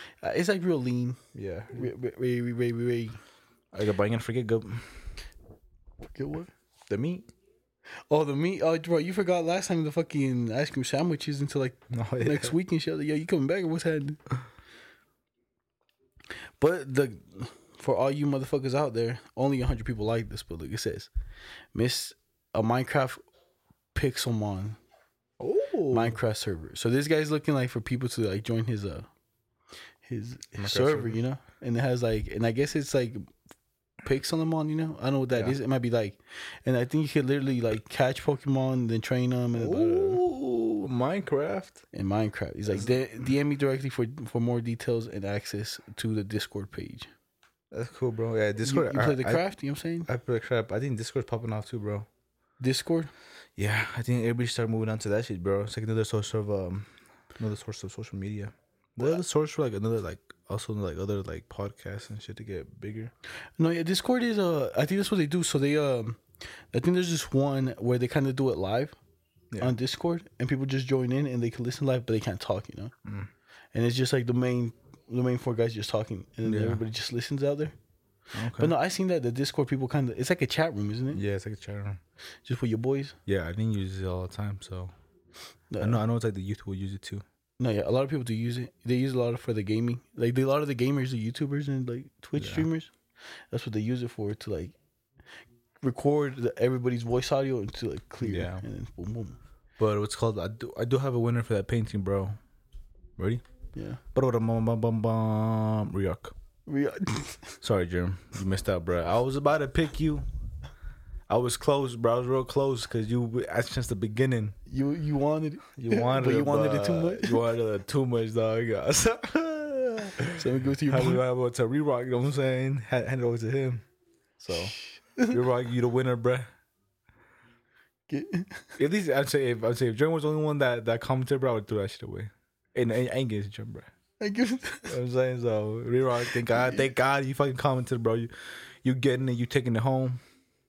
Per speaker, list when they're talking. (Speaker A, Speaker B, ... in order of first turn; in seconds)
Speaker A: 0.2-1.2, 1.7-3.2, 6.1-6.5, 8.1-14.2, 16.6-21.1, 21.7-23.2, 23.9-24.8, 25.9-29.1, 30.0-33.3, 34.0-40.2, 41.9-47.1, 48.6-50.1, 52.6-53.1, 63.6-69.0, 69.6-72.9, 73.7-77.7, 78.6-81.2, 82.4-83.2, 85.7-86.0, 87.6-92.9, 93.5-94.8, 95.8-99.4, 103.7-104.0, 106.7-107.6, 114.7-117.4, 120.3-121.2, 124.4-125.4, 128.1-128.8, 134.2-134.9, 136.5-136.8
Speaker B: 1.3-1.9, 3.7-5.0, 6.9-7.3, 11.9-12.6, 25.4-26.2, 30.6-31.2, 39.5-41.8, 47.7-49.5, 50.1-52.1, 53.6-63.1, 73.0-73.3, 76.4-76.8, 78.3-78.8, 81.1-82.0, 83.3-84.9, 85.8-87.2, 92.4-92.7, 98.2-98.6, 99.8-102.4, 103.2-103.4, 104.1-106.3, 107.6-110.3, 111.3-114.6, 115.8-123.8, 124.5-124.7, 125.3-126.5, 128.8-133.9, 134.9-138.3, 138.8-140.2